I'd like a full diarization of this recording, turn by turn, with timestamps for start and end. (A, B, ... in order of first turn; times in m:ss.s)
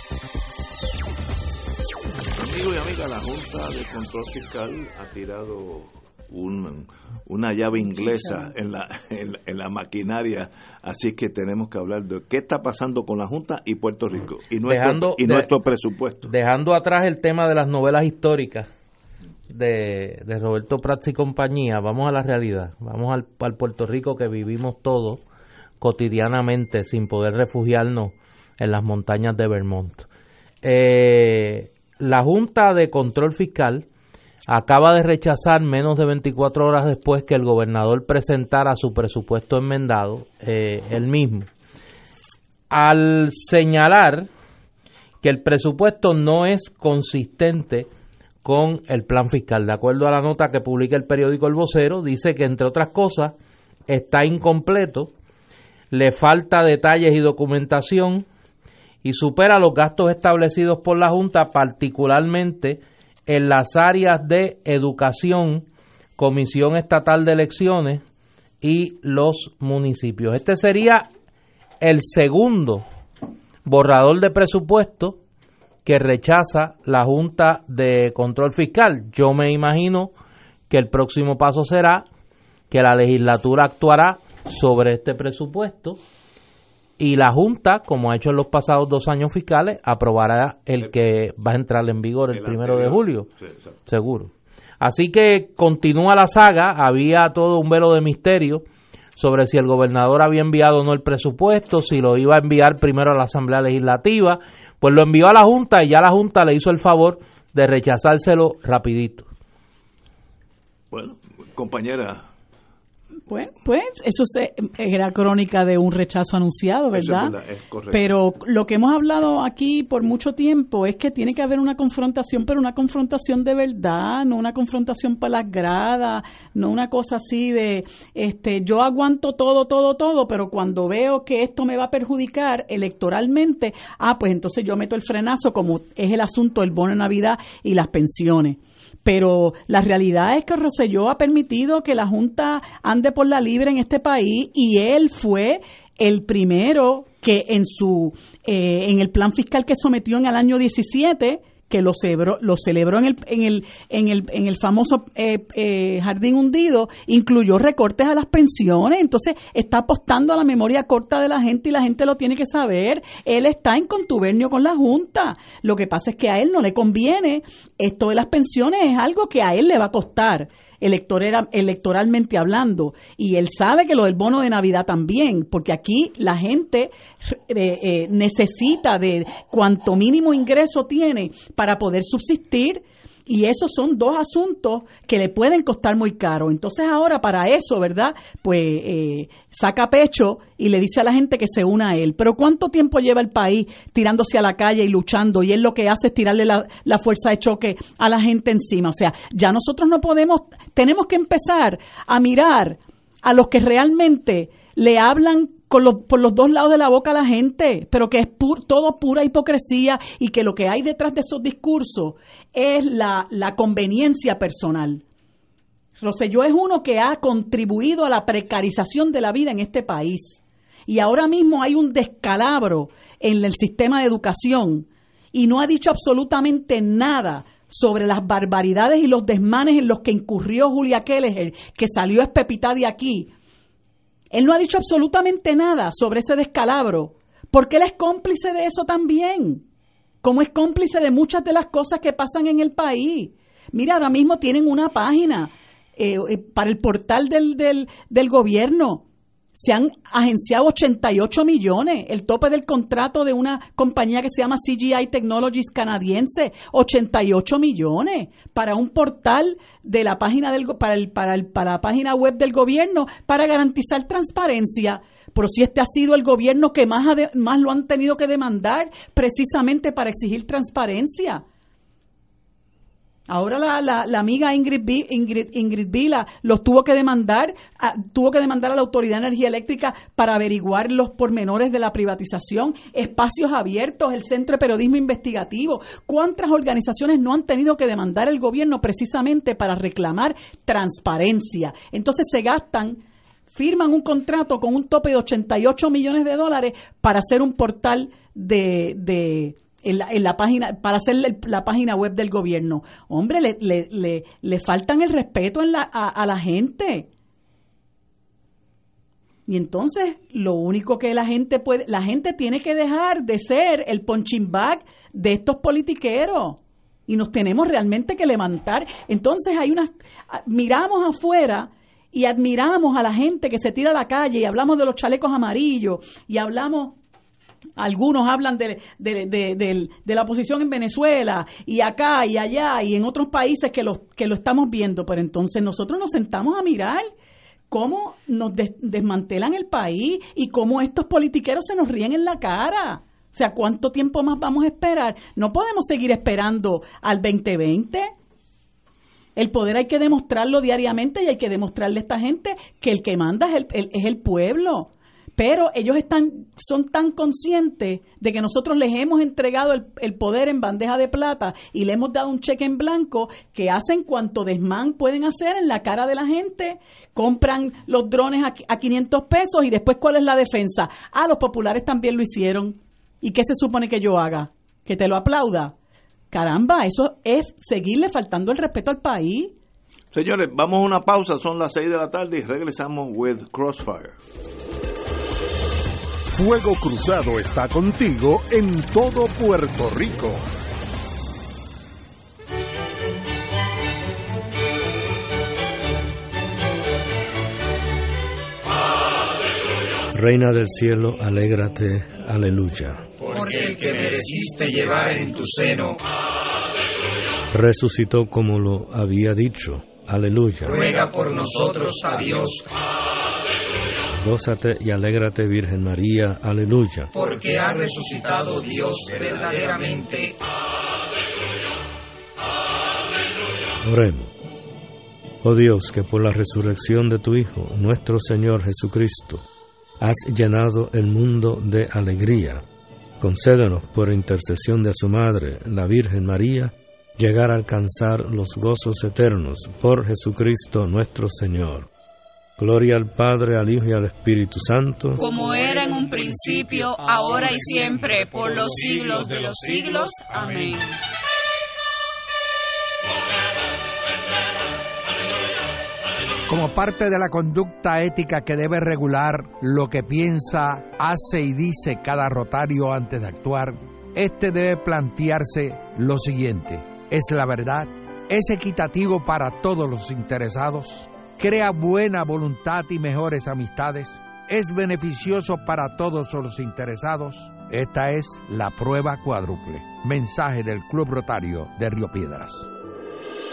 0:02.3-0:16.3 A
0:07.9-0:08.5 B
0:14.7-0:15.5 C
0:16.2-0:18.7 C
0:19.5-0:25.2 C
0:25.8-0:30.1 C
0:30.6-0:33.9 C
0:34.5-0:41.5 C
0:42.7-0:44.3 C
0:45.2-0:47.9 C
0:48.4-0:53.4 C
0:53.9-0:55.1 C
0:55.9-0:58.2 C
0:59.0-1:05.7 C
1:06.2-1:08.0 C
1:08.6-1:11.1 C
1:11.8-1:12.8 C
1:13.6-1:15.2 C
1:15.8-1:20.1 C
1:20.7-1:22.1 C
1:22.7-1:26.0 C
1:27.0-1:33.3 C
1:32.3-1:33.8 A
1:33.9-1:38.6 C
1:39.2-1:49.3 C
1:50.9-1:52.3 A
1:53.3-1:57.3 B
1:56.9-1:58.1 A
1:57.9-3:35.0 B
3:36.0-3:53.3 B
3:54.3-3:59.6 B
4:00.2-4:09.0 B
4:09.6-4:31.4 B
4:33.3-4:53.0 B
4:53.5-5:07.1 B
5:09.5-5:27.0 B
5:27.8-5:37.1 B
5:37.7-5:48.1 B
5:49.4-6:15.7 B
6:16.3-6:19.5 B
6:20.1-6:24.2 A
6:26.3-6:30.5 D
6:40.1-6:43.1 E
6:43.2-6:46.0 F
6:47.5-6:50.9 E
6:50.7-6:52.7 F
6:54.2-6:57.1 E
6:57.1-7:00.3 F
7:03.8-7:04.3 E
7:05.4-7:09.4 E
7:10.0-7:12.6 E
7:13.2-7:21.9 E
7:22.6-7:25.2 E
7:27.3-7:27.6 G
7:28.4-7:30.1 G
7:30.3-7:30.7 H
7:36.5-8:02.7 H